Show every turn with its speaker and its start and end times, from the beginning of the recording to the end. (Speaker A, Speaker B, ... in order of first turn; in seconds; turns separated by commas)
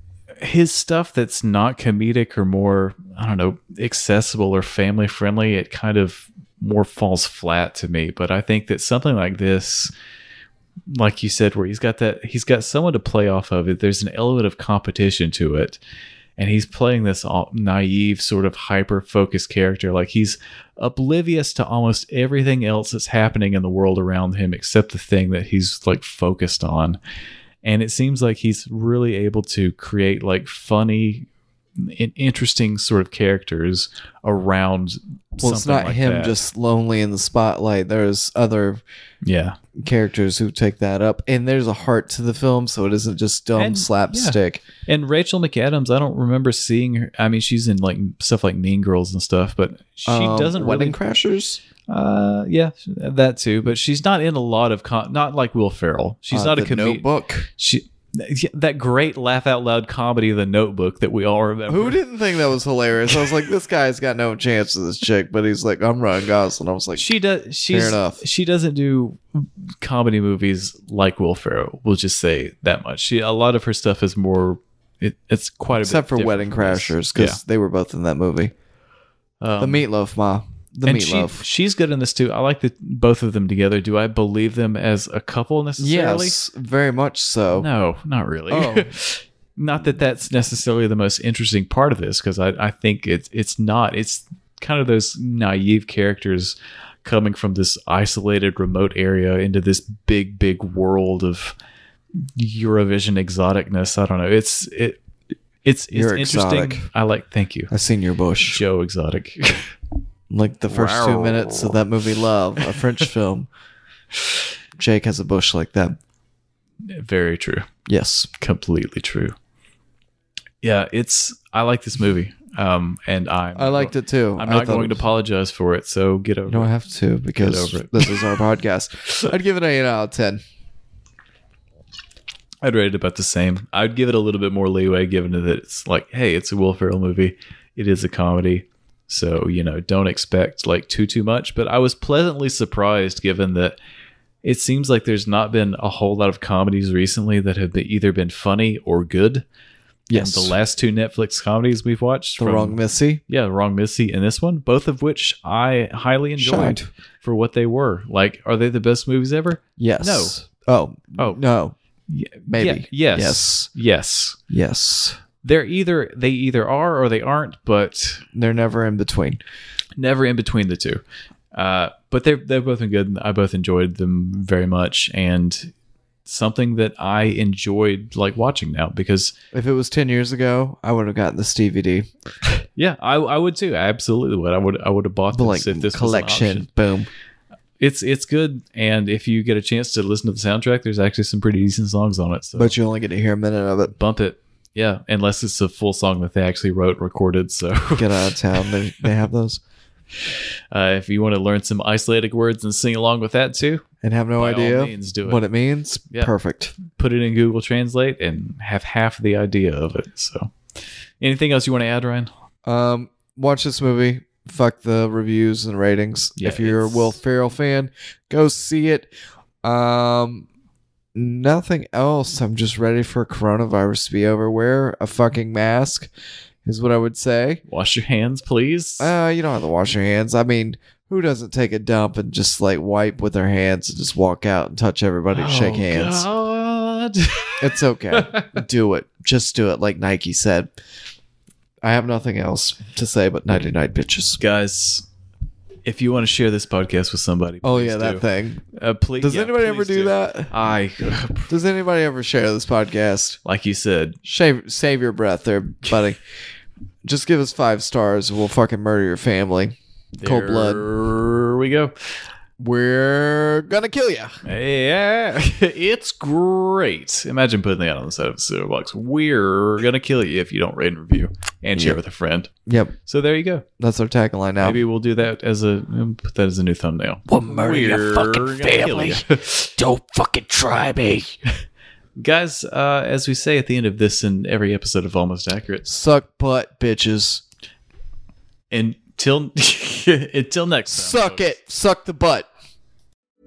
Speaker A: 0.4-9.9, Speaker A: 10.9-15.8, Speaker A: 16.4-27.0, Speaker A: 27.6-36.4, Speaker B: 35.4-38.8, Speaker A: 39.2-39.6, Speaker B: 39.8-44.6, Speaker A: 43.6-51.0, Speaker B: 50.1-51.6, Speaker A: 51.9-62.0, Speaker B: 56.3-57.5, Speaker B: 61.7-67.1, Speaker A: 67.0-77.4, Speaker B: 67.7-68.2, Speaker B: 75.8-78.5, Speaker A: 79.4-79.8, Speaker B: 79.6-81.5, Speaker A: 80.9-86.3, Speaker B: 85.8-87.7, Speaker A: 87.5-101.5, Speaker B: 88.5-88.9, Speaker A: 102.4-105.0, Speaker A: 105.6-107.7, Speaker B: 105.9-106.9, Speaker B: 107.7-108.6, Speaker A: 108.4-109.8, Speaker B: 110.3-113.5, Speaker A: 110.7-111.8, Speaker B: 114.8-116.0, Speaker A: 116.8-117.7, Speaker B: 117.9-118.3, Speaker A: 118.4-119.3, Speaker A: 120.6-126.7, Speaker B: 123.5-125.1, Speaker B: 126.5-130.4, Speaker A: 127.4-128.1, Speaker A: 132.6-143.8, Speaker A: 144.4-149.4, Speaker B: 150.1-150.6, Speaker A: 150.1-160.4, Speaker B: 152.4-153.2, Speaker B: 156.4-156.9, Speaker B: 159.8-161.8, Speaker A: 162.1-164.4, Speaker B: 162.5-163.7, Speaker B: 164.5-165.2, Speaker A: 165.4-168.2, Speaker B: 168.3-169.4, Speaker A: 170.0-171.0, Speaker A: 171.5-175.7, Speaker A: 176.3-179.4, Speaker B: 179.5-182.1, Speaker A: 182.8-186.7, Speaker B: 185.3-187.1, Speaker A: 187.8-192.8, Speaker B: 192.6-193.9, Speaker A: 193.9-198.3, Speaker B: 197.9-199.6, Speaker A: 200.7-203.8, Speaker B: 204.0-206.8, Speaker A: 204.4-205.4, Speaker A: 206.8-210.5, Speaker A: 211.2-212.3, Speaker B: 212.7-220.4, Speaker A: 216.4-217.2, Speaker B: 221.2-226.1, Speaker B: 226.7-227.6, Speaker A: 227.7-229.1, Speaker B: 229.0-236.3, Speaker A: 235.3-238.6, Speaker B: 237.6-240.7, Speaker B: 241.8-244.4, Speaker A: 244.4-245.1, Speaker A: 245.8-251.5, Speaker B: 247.6-248.7, Speaker B: 249.2-250.5, Speaker B: 251.5-253.4, Speaker A: 253.4-254.2, Speaker B: 254.2-256.2, Speaker B: 257.0-260.9, Speaker A: 260.2-262.1, Speaker B: 262.6-264.4, Speaker A: 264.4-272.5, Speaker B: 272.7-272.9, Speaker A: 273.1-273.6, Speaker B: 273.8-274.8, Speaker A: 274.6-279.6, Speaker C: 277.3-281.4, Speaker A: 282.2-285.9, Speaker B: 285.9-287.4, Speaker A: 288.7-291.6, Speaker B: 290.9-292.5